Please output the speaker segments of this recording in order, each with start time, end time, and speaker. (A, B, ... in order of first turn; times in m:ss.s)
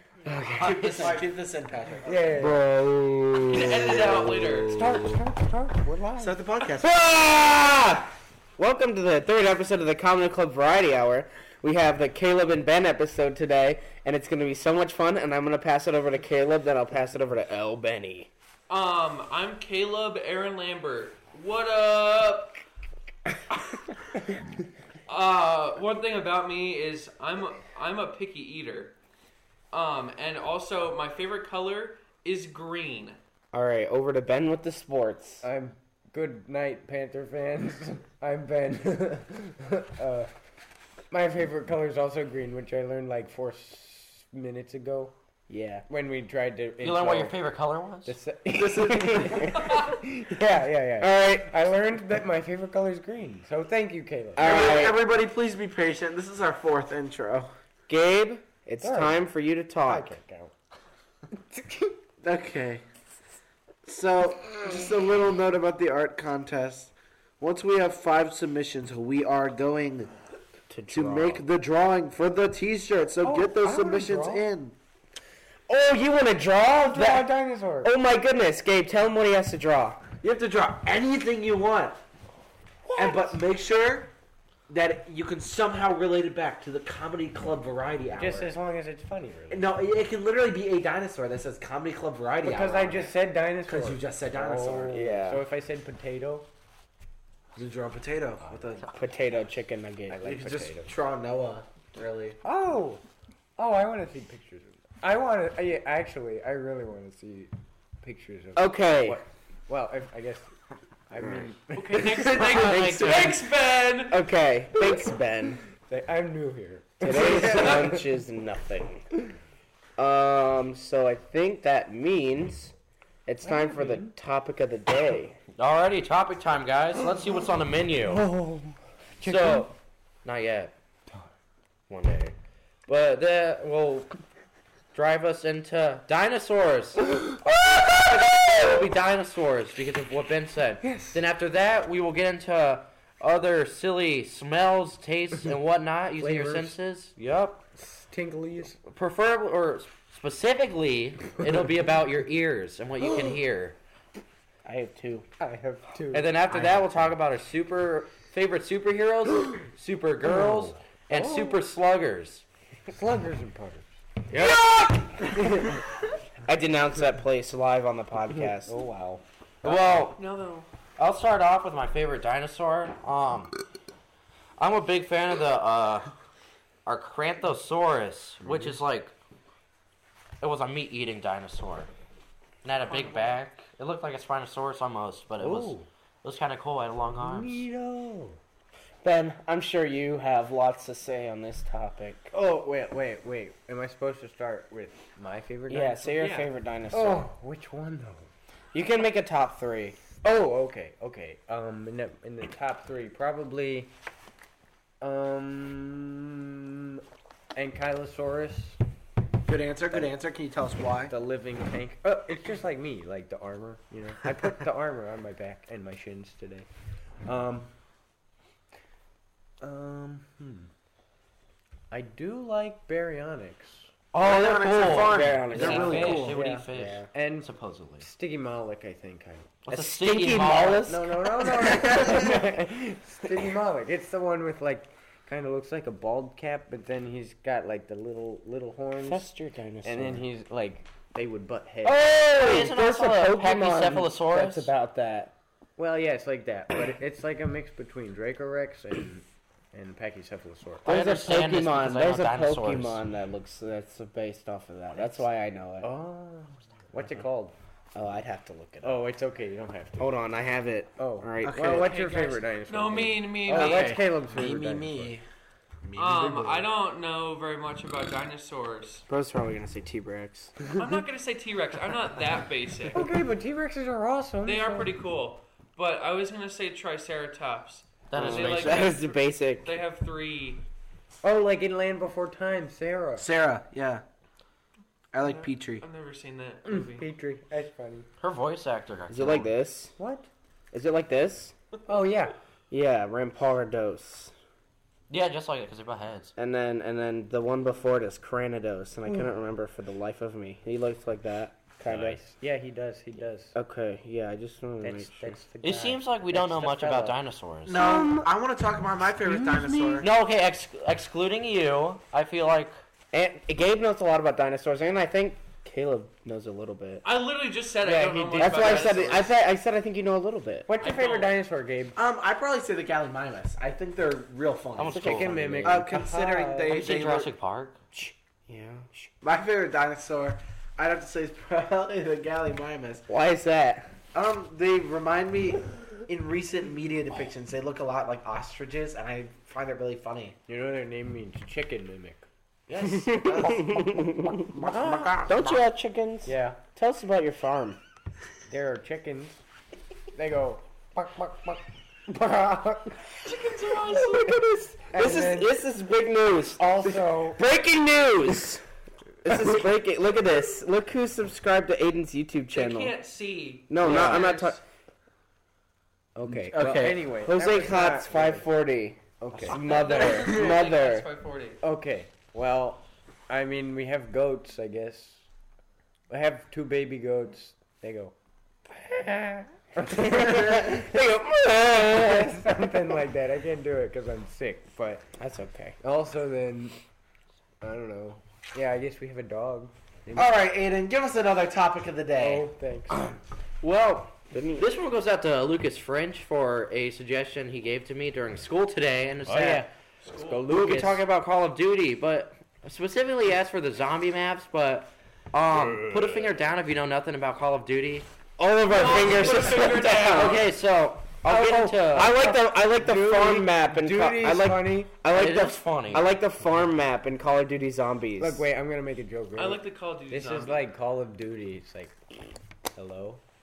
0:00.2-0:01.2 A
0:00.6-0:02.3 B
0:02.0-0:02.6 C
0:02.4-0:05.2 A
0:03.5-0:04.8 D
0:04.7-0:06.4 C
0:06.2-0:07.2 B
0:06.8-0:18.3 A
0:18.7-0:22.6 D
0:25.1-0:29.0 D
0:29.7-0:33.2 D
0:33.5-0:35.4 A
0:35.4-0:40.3 C
0:41.1-0:45.1 C
0:45.5-0:45.8 A
0:45.9-0:47.4 C
0:46.8-0:48.2 E
0:48.0-0:54.7 C
0:48.5-0:49.8 B
0:49.4-0:49.7 A
0:51.0-0:51.6 A
0:54.4-0:55.0 A
0:54.4-0:57.5 B
0:57.9-1:00.2 A
0:58.8-0:59.2 C
0:59.9-1:00.5 C
1:01.6-1:01.9 C
1:02.2-1:02.8 B
1:03.8-1:10.1 B
1:10.7-1:11.4 A
1:10.9-1:14.8 B
1:13.2-1:14.5 C
1:15.7-1:20.0 A
1:16.9-1:17.9 C
1:20.2-1:22.0 B
1:22.9-1:23.4 C
1:23.0-1:24.1 B
1:24.7-1:28.5 B
1:28.1-1:29.7 C
1:29.5-1:35.0 B
1:32.4-1:36.5 C
1:34.9-1:35.4 A
1:37.6-1:39.0 B
1:38.4-1:38.8 C
1:38.9-1:40.3 A
1:40.1-1:40.9 C
1:40.2-1:42.4 B
1:42.4-1:43.0 C
1:43.6-1:50.5 C
1:48.6-1:49.2 A
1:51.1-1:52.4 C
1:51.7-1:54.2 D
1:52.0-1:53.4 A
1:52.4-1:53.4 E
1:54.0-1:55.6 A
1:54.8-1:55.1 C
1:55.8-1:58.1 C
1:57.0-1:59.0 A
1:57.1-1:58.0 D
2:00.0-2:02.7 A
2:03.3-2:05.4 A
2:03.4-2:04.1 C
2:05.6-2:08.2 E
2:08.1-2:09.7 C
2:09.2-2:10.7 E
2:11.9-2:12.4 E
2:12.9-2:14.1 E
2:14.9-2:27.6 E
2:20.8-2:21.2 C
2:26.2-2:26.8 C
2:27.8-2:28.8 C
2:28.9-2:33.8 E
2:34.6-2:35.3 A
2:35.4-2:37.0 C
2:36.1-2:42.4 E
2:40.2-2:41.6 C
2:42.9-2:43.9 C
2:44.3-2:44.9 E
2:44.4-2:45.8 A
2:46.5-2:48.8 A
2:48.6-2:49.2 C
2:49.6-2:50.2 E
2:49.9-2:50.7 D
2:51.0-2:53.5 E
2:54.6-2:56.1 E
2:56.9-2:59.1 E
2:58.4-2:58.8 C
3:00.4-3:01.9 E
3:02.6-3:07.6 E
3:02.9-3:03.4 D
3:05.4-3:05.9 C
3:07.2-3:08.4 C
3:09.0-3:12.3 A
3:12.3-3:16.2 C
3:15.7-3:17.3 A
3:16.2-3:16.5 D
3:16.9-3:18.3 C
3:18.7-3:20.0 A
3:20.2-3:23.9 C
3:25.0-3:27.0 C
3:27.6-3:28.8 C
3:29.4-3:31.1 B
3:31.1-3:36.7 C
3:37.2-3:37.7 C
3:39.6-3:40.7 C
3:41.9-3:43.9 C
3:44.1-3:48.1 E
3:44.2-3:46.6 B
3:45.0-3:46.2 A
3:45.6-3:49.6 C
3:46.8-3:47.1 A
3:49.6-3:51.0 E
3:49.7-3:52.5 A
3:50.6-3:59.3 C
3:59.0-4:00.2 A
3:59.8-4:02.1 C
4:01.8-4:05.3 A
4:02.3-4:04.7 E
4:05.8-4:10.9 C
4:10.8-4:13.0 E
4:10.9-4:15.9 A
4:15.0-4:15.2 C
4:15.8-4:17.6 C
4:18.0-4:18.9 B
4:18.6-4:18.9 A
4:18.8-4:20.1 C
4:20.0-4:21.9 A
4:21.0-4:25.2 C
4:21.4-4:22.0 B
4:21.8-4:24.0 D
4:23.5-4:25.2 B
4:25.8-4:26.7 B
4:26.0-4:29.0 D
4:29.1-4:30.6 A
4:30.7-4:33.1 D
4:32.9-4:34.9 C
4:34.4-4:39.0 D
4:38.1-4:39.0 E
4:38.1-4:39.7 A
4:39.6-4:40.6 D
4:41.2-4:43.3 C
4:43.2-4:44.0 B
4:45.1-4:45.9 B
4:45.2-4:47.1 D
4:46.7-4:48.1 C
4:48.2-4:49.5 E
4:49.1-4:50.0 A
4:50.0-4:50.3 C
4:50.7-4:51.5 A
4:51.9-4:52.4 C
4:52.7-4:54.4 A
4:55.1-4:56.3 E
4:56.4-5:02.2 A
5:01.8-5:03.6 C
5:03.5-5:05.4 A
5:04.8-5:07.2 C
5:05.6-5:07.8 E
5:07.7-5:10.1 B
5:07.7-5:08.3 A
5:09.3-5:10.0 C
5:10.0-5:12.8 E
5:13.1-5:17.0 A
5:17.0-5:19.3 D
5:18.2-5:18.6 C
5:18.3-5:20.7 A
5:20.7-5:22.0 C
5:20.8-5:21.4 D
5:22.0-5:27.3 B
5:24.8-5:25.8 E
5:25.0-5:26.9 C
5:25.0-5:25.5 A
5:26.7-5:27.8 E
5:28.5-5:28.9 A
5:29.2-5:33.0 B
5:33.1-5:33.9 A
5:34.1-5:40.4 B
5:40.5-5:42.2 C
5:42.8-5:47.8 A
5:43.0-5:43.6 B
5:44.5-5:45.4 B
5:46.3-5:46.6 C
5:48.5-5:49.4 C
5:50.2-5:53.0 C
5:53.2-5:54.4 D
5:54.2-5:55.5 C
5:54.8-5:56.7 A
5:56.6-5:57.4 C
5:57.4-5:58.6 A
5:59.2-6:02.9 A
6:02.5-6:04.6 D
6:03.7-6:04.6 A
6:03.8-6:04.2 B
6:06.2-6:11.1 A
6:06.3-6:08.5 C
6:06.5-6:07.1 B
6:09.2-6:09.9 C
6:09.5-6:11.6 D
6:10.2-6:10.5 B
6:11.6-6:15.2 C
6:16.1-6:18.1 C
6:18.8-6:22.7 A
6:19.8-6:20.9 C
6:21.7-6:25.1 C
6:25.2-6:25.8 A
6:25.8-6:26.8 C
6:27.6-6:28.2 A
6:28.5-6:30.3 C
6:30.2-6:32.5 B
6:32.2-6:33.0 C
6:33.6-6:34.7 A
6:33.8-6:39.7 E
6:39.3-6:39.7 C
6:40.0-6:40.4 D
6:40.3-6:41.0 C
6:40.4-6:48.1 E
6:48.4-6:50.4 A
6:48.7-6:50.5 D
6:48.7-6:52.3 E
6:51.2-6:58.5 A
6:52.0-6:54.9 C
6:55.0-6:56.1 E
6:58.2-7:02.0 C
6:59.4-7:00.6 D
7:02.7-7:03.2 C